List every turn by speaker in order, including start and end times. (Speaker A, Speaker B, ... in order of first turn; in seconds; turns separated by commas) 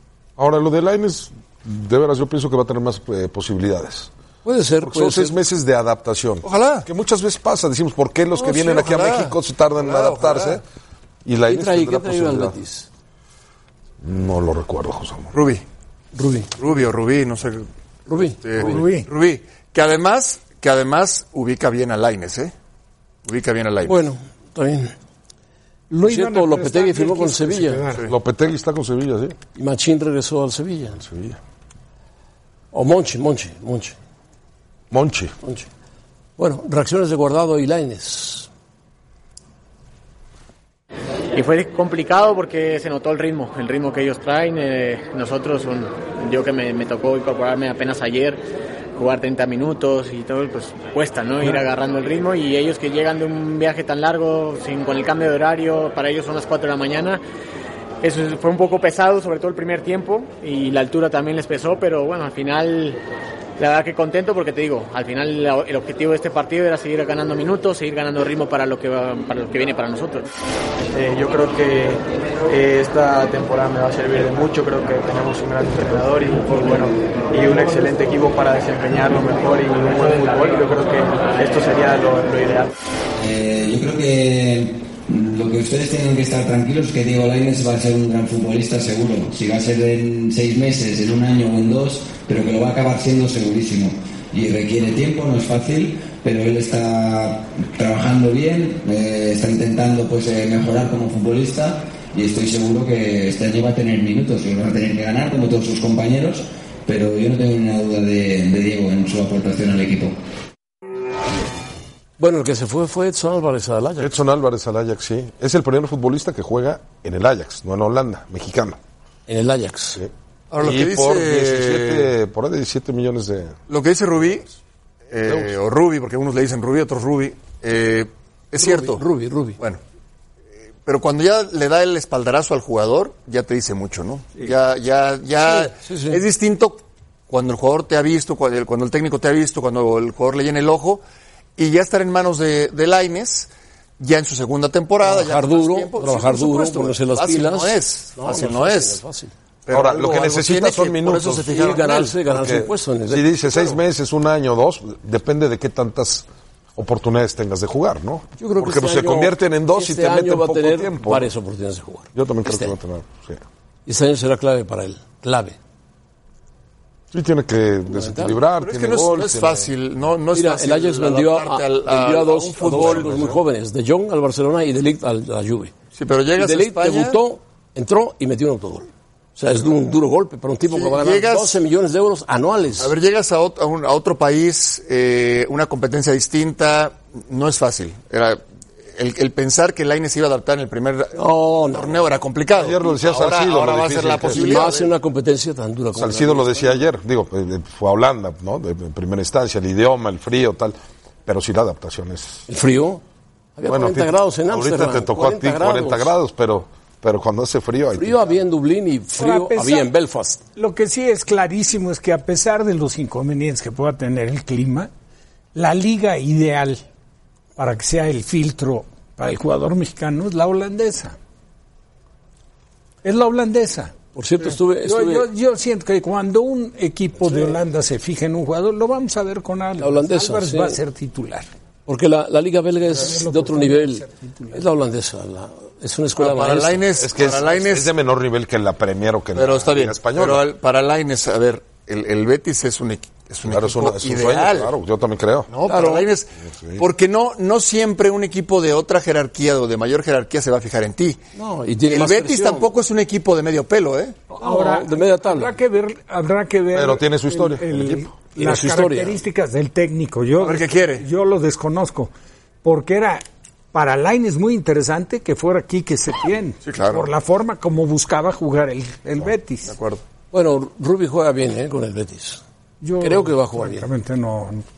Speaker A: 0.4-4.1, Speaker B: 4.4-5.4, Speaker A: 4.8-10.6, Speaker C: 6.4-6.9, Speaker C: 8.3-10.6, Speaker A: 11.2-12.6, Speaker B: 11.5-12.9, Speaker A: 14.0-15.3, Speaker C: 15.3-15.6, Speaker B: 16.1-16.5, Speaker C: 16.6-17.7, Speaker B: 18.1-18.4, Speaker C: 18.4-22.5, Speaker D: 18.6-19.1, Speaker C: 23.2-24.0, Speaker B: 23.9-24.9, Speaker D: 25.9-28.1, Speaker B: 26.0-27.8, Speaker A: 28.1-29.4, Speaker B: 29.5-31.0, Speaker A: 31.0-31.4, Speaker B: 32.7-34.0, Speaker A: 34.9-35.3, Speaker B: 36.4-38.5, Speaker E: 41.3-48.4, Speaker E: 49.0-57.2, Speaker E: 58.0-63.0, Speaker E: 63.6-70.3, Speaker F: 70.9-82.7, Speaker G: 83.2-110.2, Speaker B: 112.2-114.1, Speaker A: 114.0-118.8, Speaker B: 119.3-120.0, Speaker A: 120.0-123.6, Speaker C: 120.5-122.1, Speaker C: 123.7-124.5, Speaker C: 125.1-129.0, Speaker B: 128.6-129.6, Speaker C: 130.8-141.0, Speaker B: 135.4-136.2, Speaker C: 141.6-149.0, Speaker B: 145.0-149.3, Speaker C: 149.7-152.1, Speaker A: 149.7-151.5, Speaker B: 151.4-153.8, Speaker A: 152.3-161.3, Speaker B: 158.4-162.7, Speaker A: 162.1-163.4, Speaker B: 163.8-165.6, Speaker A: 167.1-169.7, Speaker B: 167.9-168.4, Speaker C: 168.6-173.3, Speaker B: 170.3-175.7, Speaker A: 172.7-173.4, Speaker C: 175.9-177.2, Speaker B: 176.4-182.9, Speaker C: 180.7-181.6, Speaker C: 182.8-188.4, Speaker C: 188.9-191.2, Speaker B: 191.1-192.0, Speaker C: 191.7-194.9, Speaker A: 192.6-194.6, Speaker B: 194.3-196.8, Speaker A: 195.9-202.4, Speaker B: 202.5-203.0, Speaker B: 203.6-206.1, Speaker A: 203.7-208.3, Speaker B: 207.9-210.4, Speaker D: 209.1-209.9, Speaker D: 210.6-214.9, Speaker D: 215.5-216.8, Speaker D: 217.6-221.2, Speaker D: 223.0-223.9, Speaker B: 224.1-225.3, Speaker D: 224.5-231.5, Speaker B: 229.8-230.8, Speaker B: 231.9-236.8, Speaker D: 232.9-234.6, Speaker C: 236.2-237.9, Speaker A: 237.0-240.4, Speaker C: 239.3-244.7, Speaker A: 243.4-245.5, Speaker C: 245.5-251.2, Speaker B: 245.7-246.1, Speaker A: 246.5-246.8, Speaker B: 251.3-252.7, Speaker C: 251.9-254.2, Speaker D: 254.3-262.1, Speaker B: 254.4-255.5, Speaker A: 256.7-258.1, Speaker B: 258.4-259.2, Speaker C: 260.4-261.1, Speaker D: 262.6-269.7, Speaker C: 266.6-267.0, Speaker C: 269.7-270.0, Speaker B: 270.3-272.4, Speaker D: 272.8-274.6, Speaker B: 273.0-273.9